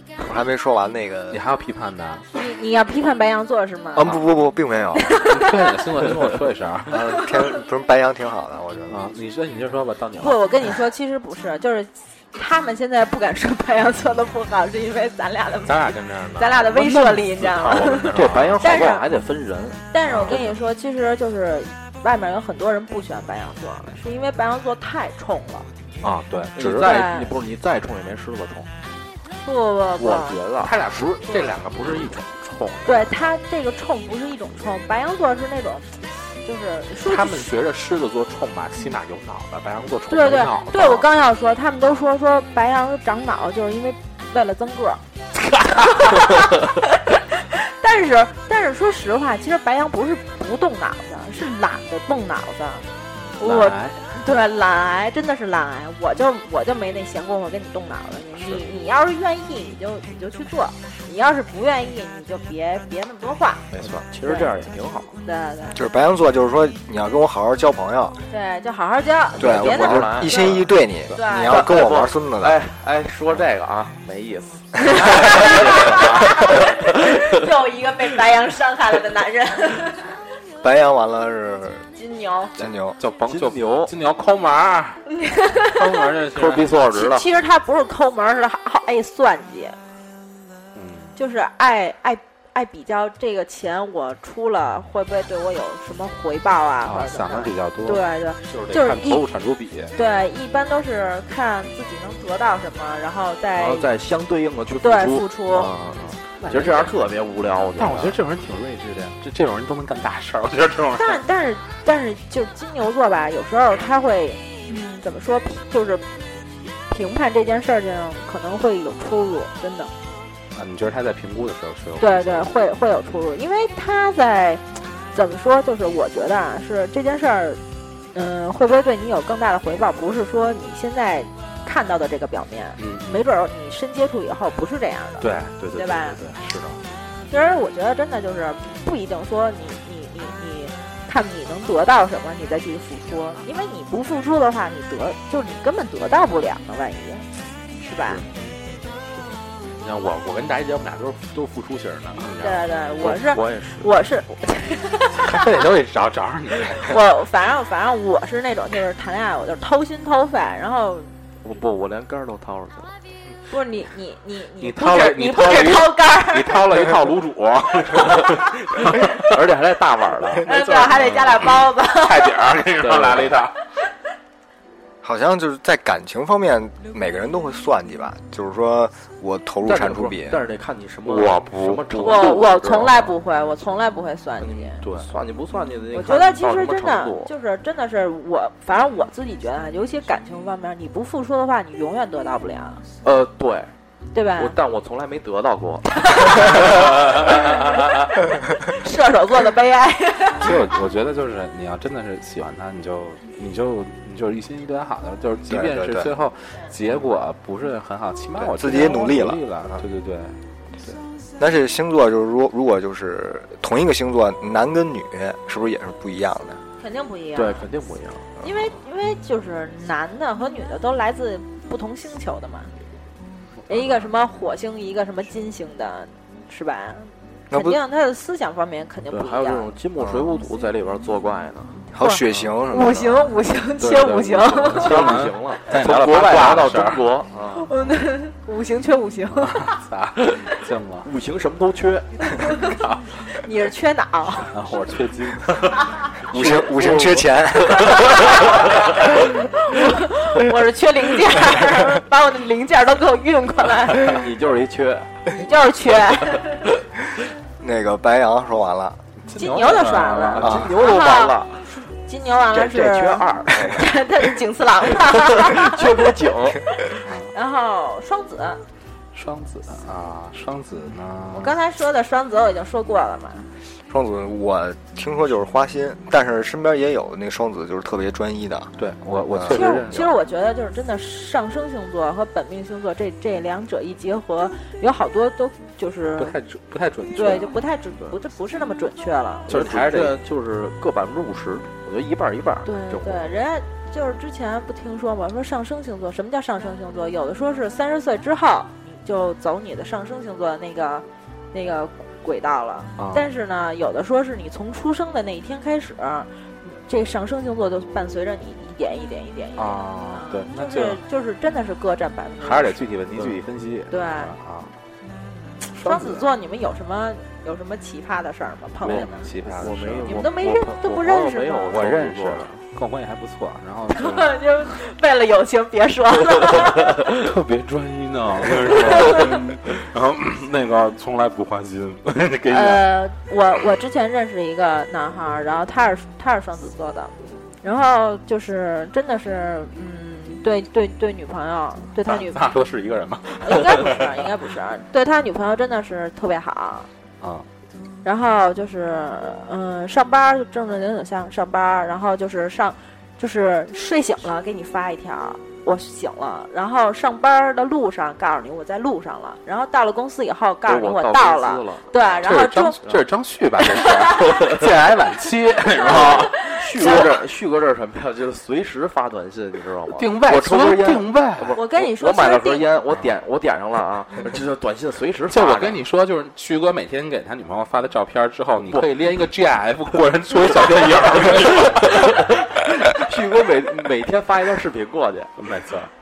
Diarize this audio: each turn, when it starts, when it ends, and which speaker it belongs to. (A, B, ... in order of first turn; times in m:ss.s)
0:00.2-0:01.4 A
0:01.3-0:02.2 B
0:02.3-0:04.2 C
0:03.9-0:05.2 A
0:05.0-0:05.5 C
0:05.2-0:07.2 B
0:06.9-0:09.0 A
0:08.9-0:10.4 B
0:10.2-0:19.1 C
0:15.6-0:18.8 B
0:18.1-0:20.5 D
0:19.9-0:25.7 C
0:20.1-0:20.4 B
0:26.0-0:27.0 B
0:26.5-0:28.7 D
0:26.8-0:27.3 C
0:29.4-0:30.4 C
0:30.0-0:31.5 D
0:30.6-0:33.2 B
0:32.8-0:37.5 C
0:37.0-0:41.1 B
0:40.1-0:45.0 C
0:45.7-0:52.9 C
0:53.4-1:03.6 C
0:53.4-0:54.0 B
1:03.7-1:05.2 D
1:04.2-1:04.5 C
1:05.2-1:05.8 C
1:05.7-1:08.2 A
1:08.3-1:11.7 C
1:09.4-1:12.6 A
1:09.4-1:10.7 D
1:11.4-1:17.4 D
1:14.8-1:20.1 C
1:20.6-1:21.8 A
1:22.0-1:22.5 C
1:22.6-1:23.0 A
1:23.0-1:25.1 B
1:23.2-1:23.9 D
1:25.1-1:25.8 C
1:25.6-1:26.7 B
1:26.3-1:27.2 D
1:26.9-1:29.8 C
1:30.7-1:31.2 B
1:31.2-1:39.2 C
1:36.8-1:39.9 B
1:39.9-1:43.9 C
1:43.6-1:48.2 D
1:44.8-1:45.7 C
1:46.5-1:46.8 B
1:46.5-1:46.9 C
1:47.8-1:51.2 B
1:51.0-1:56.1 C
1:56.9-1:59.9 C
2:00.5-2:02.5 B
2:02.0-2:07.6 C
2:08.1-2:16.2 C
2:12.8-2:13.2 B
2:15.2-2:16.8 B
2:17.3-2:28.2 C
2:29.8-2:33.2 B
2:32.4-2:35.5 C
2:33.0-2:33.9 D
2:35.2-2:37.0 B
2:36.7-2:41.1 C
2:41.4-2:42.9 D
2:43.5-2:46.6 C
2:44.6-2:49.2 B
2:48.9-2:51.0 D
2:50.4-2:52.3 C
2:51.1-2:53.6 B
2:52.8-2:53.4 D
2:55.0-3:00.4 A
2:59.6-3:03.1 D
3:01.0-3:02.4 B
3:02.0-3:04.8 C
3:04.4-3:07.3 D
3:05.9-3:12.8 C
3:13.0-3:13.7 D
3:14.1-3:14.6 C
3:14.4-3:17.4 D
3:16.0-3:16.6 C
3:16.6-3:18.1 B
3:17.3-3:17.6 C
3:18.6-3:20.5 C
3:20.4-3:31.0 B
3:25.5-3:26.1 A
3:28.4-3:29.8 A
3:31.4-3:36.6 A
3:36.8-3:37.7 C
3:37.3-3:38.5 D
3:38.4-3:42.7 C
3:43.6-3:44.1 B
3:43.7-3:49.7 C
3:47.5-3:47.8 A
3:49.1-3:51.8 D
3:51.9-3:53.4 A
3:52.0-3:55.0 C
3:52.2-3:52.6 B
3:53.8-3:57.7 D
3:54.0-3:57.1 B
3:57.6-3:59.8 C
3:59.3-4:01.1 B
4:01.0-4:02.3 D
4:02.3-4:02.8 C
4:02.8-4:03.2 B
4:03.3-4:04.5 C
4:04.5-4:06.6 B
4:06.3-4:08.1 D
4:06.3-4:08.5 A
4:08.0-4:14.2 C
4:14.0-4:15.1 D
4:15.3-4:16.6 C
4:17.6-4:19.0 A
4:19.2-4:20.7 B
4:19.4-4:26.0 C
4:20.3-4:21.7 D
4:22.5-4:23.9 D
4:25.2-4:26.6 D
4:26.8-4:28.6 C
4:27.0-4:27.3 B
4:29.1-4:31.5 B
4:31.3-4:33.5 C
4:33.9-4:38.7 A
4:38.8-4:40.1 B
4:39.3-4:39.7 A
4:39.5-4:46.4 C
4:46.2-4:47.6 B
4:47.1-4:49.6 C
4:49.5-4:50.2 B
4:49.5-4:53.3 D
4:52.6-5:12.8 C
5:03.0-5:03.2 B
5:09.6-5:11.0 B
5:12.4-5:14.8 B
5:13.9-5:14.3 C
5:15.7-5:16.3 B
5:15.8-5:19.3 C
5:18.8-5:20.3 B
5:18.8-5:22.6 D
5:20.0-5:21.9 C
5:21.7-5:24.3 B
5:23.9-5:27.0 C
5:27.0-5:32.8 B
5:28.9-5:29.1 C
5:32.5-5:42.4 C
5:42.0-5:44.2 B
5:43.4-5:46.9 C
5:47.2-5:47.5 B
5:48.0-6:02.8 C
6:00.6-6:03.0 D
6:02.2-6:07.2 B
6:03.6-6:04.4 C
6:04.2-6:04.7 D
6:05.7-6:07.2 C
6:05.8-6:15.8 D
6:09.9-6:11.6 B
6:11.5-6:12.7 C
6:15.3-6:22.4 B
6:18.6-6:18.9 D
6:20.5-6:22.3 D
6:23.0-6:25.3 D
6:25.4-6:25.9 B